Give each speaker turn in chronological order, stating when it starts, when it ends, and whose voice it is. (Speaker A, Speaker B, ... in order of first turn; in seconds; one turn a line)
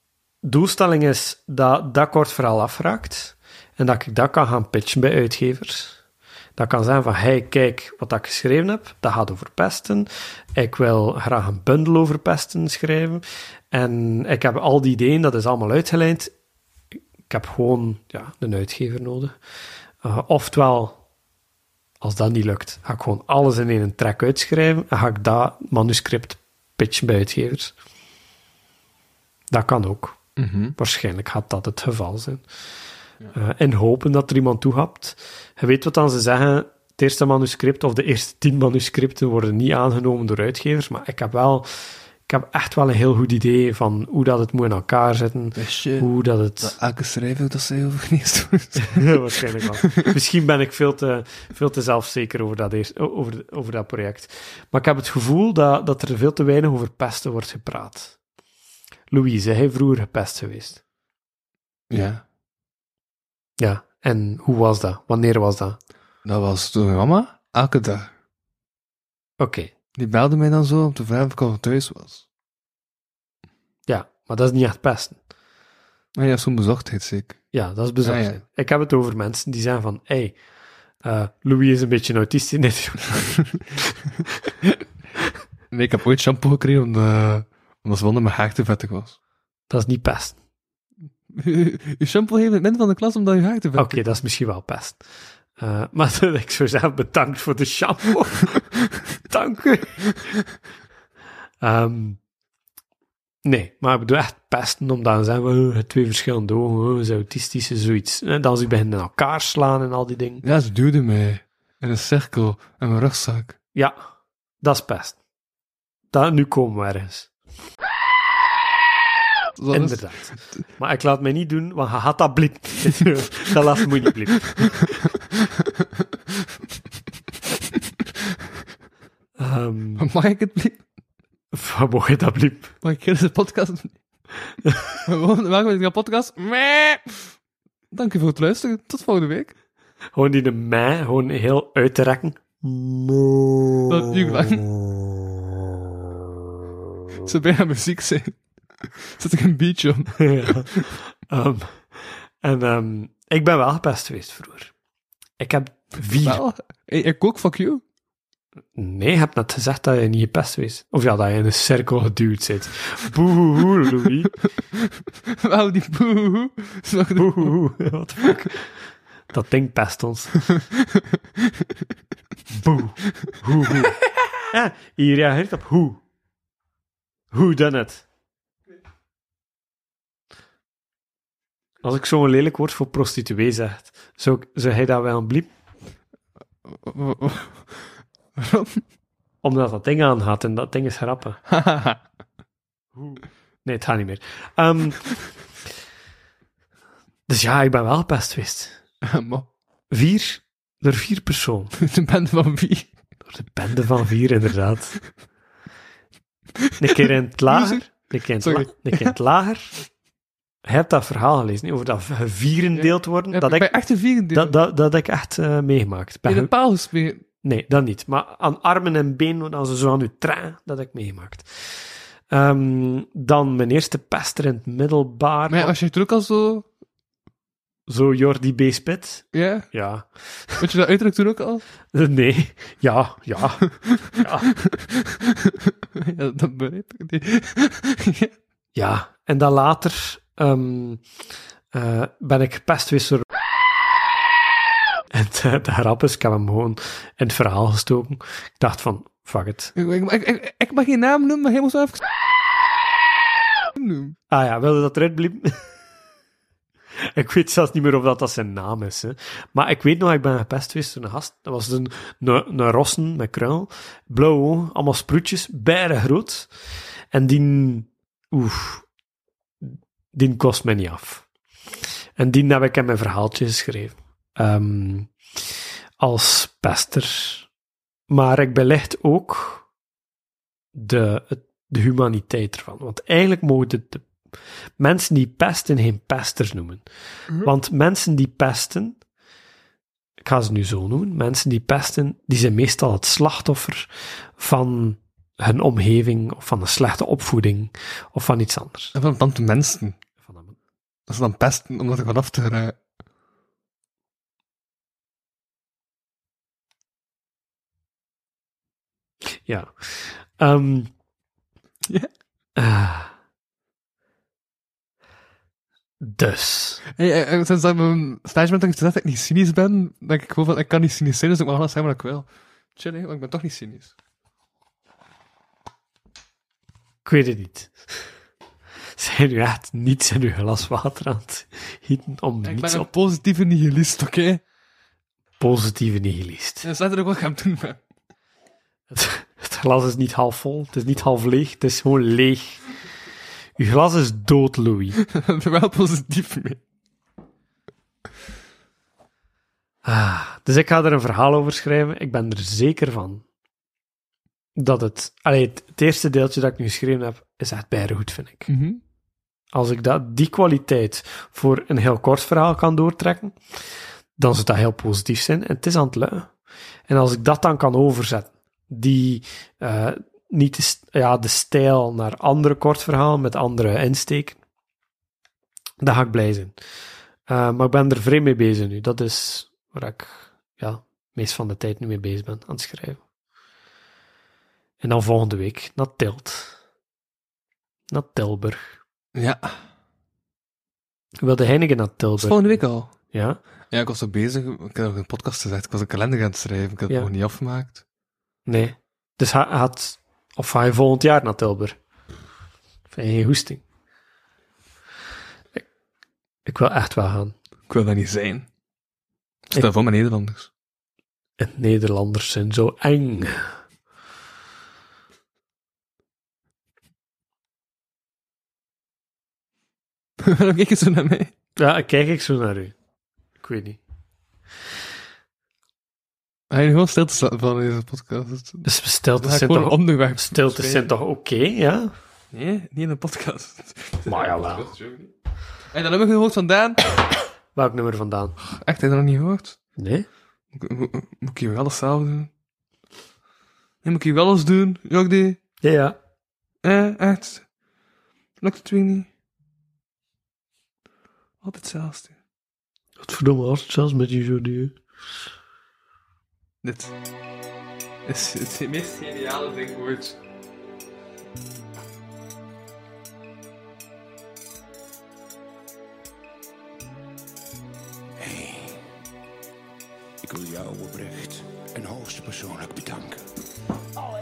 Speaker A: 0.4-6.0
Speaker A: 6.6-16.3
Speaker A: 17.3-19.4
Speaker A: 20.0-21.0
Speaker A: 22.0-27.7
Speaker A: 29.5-30.2
Speaker B: 30.4-30.8
Speaker A: 30.8-32.4
Speaker A: 33.4-46.8
Speaker B: 45.6-46.1
Speaker B: 46.6-49.4
Speaker A: 48.8-58.1
Speaker A: 59.1-60.8
Speaker B: 61.9-62.2
Speaker A: 63.6-65.8
Speaker B: 66.2-68.1
Speaker A: 69.4-69.7
Speaker B: 70.0-72.2
Speaker A: 73.9-75.2
Speaker B: 76.2-77.4
Speaker A: 77.5-80.4
Speaker B: 78.0-78.4
Speaker A: 81.0-83.4
Speaker B: 85.7-89.2
Speaker A: 89.7-90.4
Speaker B: 91.3-94.0
Speaker A: 93.8-95.0
Speaker A: 95.6-98.7
Speaker A: 99.3-100.1
Speaker A: 101.6-102.2
Speaker A: 103.5-110.4
Speaker B: 110.4-113.5
Speaker A: 114.6-115.2
Speaker A: 116.1-117.3
Speaker B: 119.6-120.6
Speaker A: 119.7-125.0
Speaker A: 129.4-130.1
Speaker B: 130.0-130.8
Speaker A: 131.5-132.7
Speaker B: 132.8-134.0
Speaker B: 135.1-137.3
Speaker B: 137.9-139.5
Speaker A: 140.2-144.1
Speaker B: 143.9-144.7
Speaker B: 147.2-150.9
Speaker A: 150.2-154.7
Speaker A: 155.4-156.4
Speaker B: 156.0-157.8
Speaker A: 158.8-164.3
Speaker B: 164.7-167.6
Speaker A: 167.2-168.7
Speaker A: 169.3-170.5
Speaker B: 170.8-171.9
Speaker A: 172.5-174.0
Speaker B: 173.2-173.8
Speaker A: 174.5-176.0
Speaker A: 177.3-178.0
Speaker A: 181.8-185.5
Speaker B: 186.7-188.8
Speaker A: 189.4-191.4
Speaker B: 191.5-192.0
Speaker A: 193.0-195.1
Speaker A: 197.3-198.8
Speaker B: 199.0-199.5
Speaker A: 199.9-201.7
Speaker B: 201.8-202.9
Speaker A: 203.3-205.0
Speaker A: 206.8-209.8
Speaker B: 207.0-209.2
Speaker A: 210.7-216.5
Speaker B: 212.8-214.6
Speaker B: 216.3-217.2
Speaker A: 217.4-225.7
Speaker B: 225.5-226.7
Speaker A: 227.9-230.6
Speaker B: 229.3-229.7
Speaker B: 230.6-231.7
Speaker A: 231.9-234.5
Speaker B: 234.2-238.3
Speaker A: 238.8-241.0
Speaker A: 241.7-243.2
Speaker A: 245.1-249.7
Speaker B: 249.8-252.0
Speaker B: 253.8-254.2
Speaker A: 254.3-255.6
Speaker A: 257.0-266.5
Speaker A: 267.1-268.9
Speaker A: 269.6-271.2
Speaker A: 272.2-275.1
Speaker A: 276.0-277.5
Speaker A: 278.1-279.6
Speaker A: 280.7-284.1
Speaker A: 284.8-289.0
Speaker A: 290.2-298.9
Speaker B: 298.9-300.0
Speaker A: 300.2-300.6
Speaker B: 301.1-302.8
Speaker A: 309.3-310.9
Speaker A: 312.6-313.1
Speaker A: 316.0-316.8
Speaker B: 316.9-323.9
Speaker A: 327.1-328.0
Speaker A: 329.0-332.9
Speaker B: 332.4-334.4
Speaker A: 335.4-336.7
Speaker B: 336.6-337.8
Speaker A: 338.9-342.6
Speaker A: 343.6-345.0
Speaker B: 345.0-346.6
Speaker A: 349.9-353.2
Speaker A: 354.6-358.5
Speaker B: 358.5-358.8
Speaker A: 359.5-363.4
Speaker A: 364.2-366.3
Speaker A: 366.9-374.4
Speaker A: 375.8-376.6
Speaker A: 377.3-383.0
Speaker A: 384.8-386.5
Speaker A: 387.9-388.7
Speaker B: 389.1-389.6
Speaker A: 391.2-393.4
Speaker B: 392.2-392.9
Speaker B: 393.7-397.8
Speaker A: 398.5-401.8
Speaker A: 402.9-403.6
Speaker A: 406.4-407.4
Speaker B: 407.7-408.5
Speaker B: 409.5-410.5
Speaker A: 411.4-413.5
Speaker B: 420.2-421.3
Speaker A: 421.6-422.7
Speaker A: 423.4-423.8
Speaker B: 426.5-428.7
Speaker A: 428.6-431.9
Speaker B: 429.2-430.9
Speaker B: 432.3-435.1
Speaker A: 434.1-434.7
Speaker B: 435.7-436.8
Speaker A: 437.6-438.4
Speaker B: 438.5-439.6
Speaker A: 439.8-440.1
Speaker B: 440.5-442.3
Speaker B: 443.8-445.4
Speaker A: 445.6-446.0
Speaker B: 446.6-447.4
Speaker B: 448.4-449.1
Speaker B: 451.4-452.1
Speaker A: 453.0-454.8
Speaker B: 456.6-456.9
Speaker B: 458.1-460.2
Speaker C: 468.2-468.8
Speaker C: 470.2-473.2